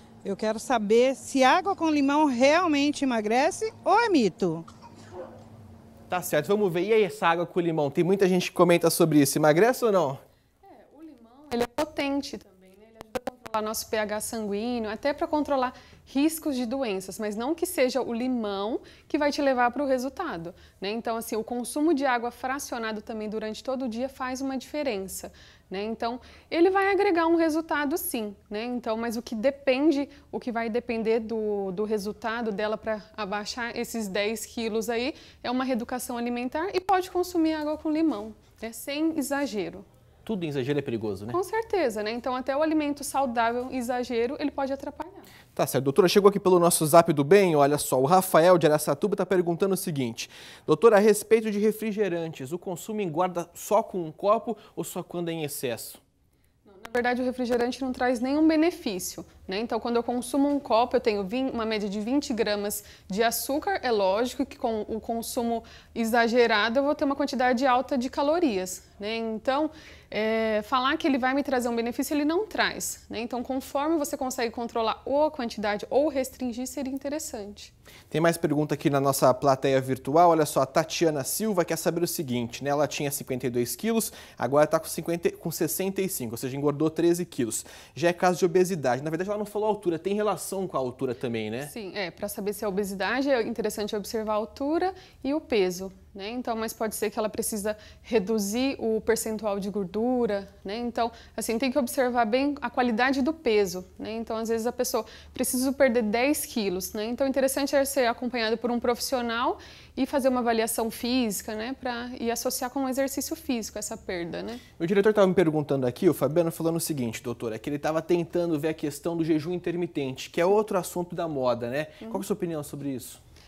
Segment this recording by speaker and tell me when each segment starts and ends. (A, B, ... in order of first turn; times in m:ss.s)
0:00.2-0:04.6 A
0:06.1-0:10.2 B
0:10.6-0:39.9 C
0:40.2-0:41.4 B
0:41.3-0:45.3 C
0:45.6-0:56.0 B
0:56.7-1:17.7 C
1:18.1-1:31.7 B
1:31.7-1:54.6 C
1:54.8-2:03.2 B